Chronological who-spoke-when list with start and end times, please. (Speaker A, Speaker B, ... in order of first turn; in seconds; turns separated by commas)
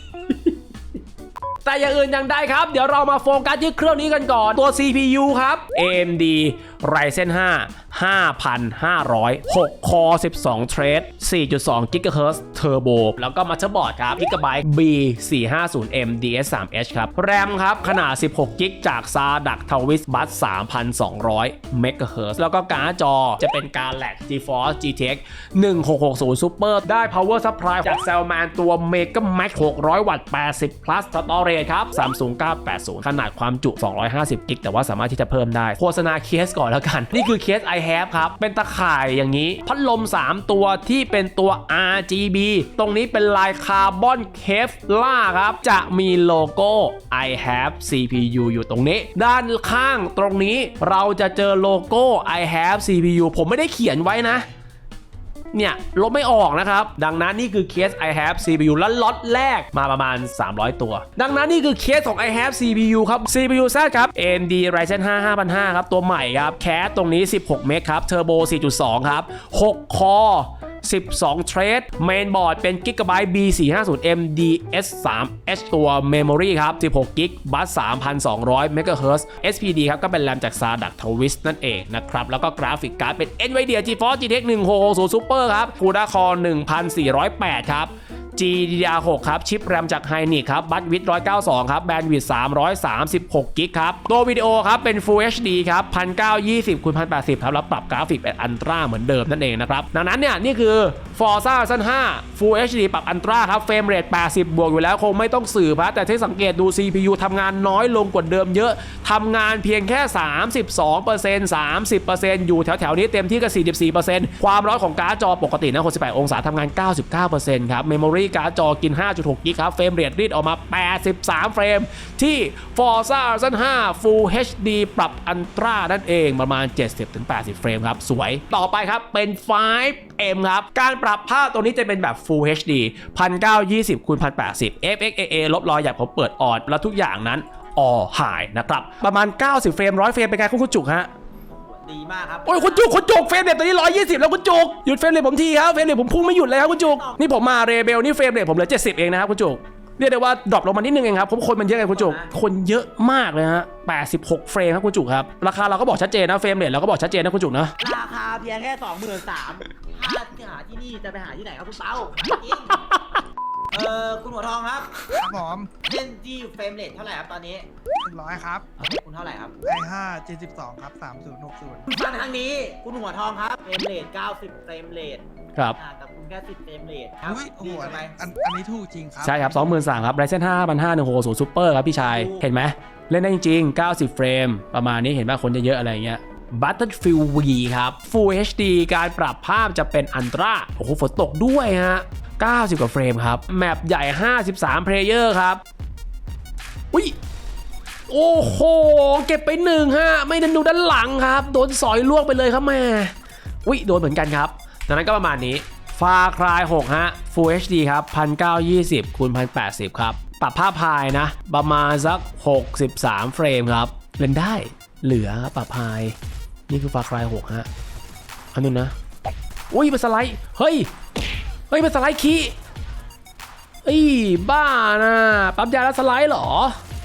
Speaker A: 1.6-54.5, Speaker A: 55.5-141.1, Speaker B: 141.5-142.9, Speaker A: 142.4-157.7, Speaker B: 146.3-147.3, Speaker B: 151.8-152.3, Speaker B: 157.8-162.8, Speaker A: 162.9-163.2, Speaker B: 163.7-165.1, Speaker C: 165.1-165.7, Speaker B: 165.8-167.7, Speaker C: 168.0-168.7, Speaker B: 168.8-169.6, Speaker C: 169.6-171.9, Speaker B: 171.9-175.2, Speaker B: 175.8-178.2, Speaker C: 177.2-179.7, Speaker A: 179.2-195.6, Speaker B: 182.0-182.4, Speaker A: 198.1-203.1, Speaker A: 203.6-216.1, Speaker A: 216.7-217.7, Speaker A: 218.5-218.9, Speaker A: 219.7-220.9, Speaker A: 221.7-222.5, Speaker A: 223.8-226.8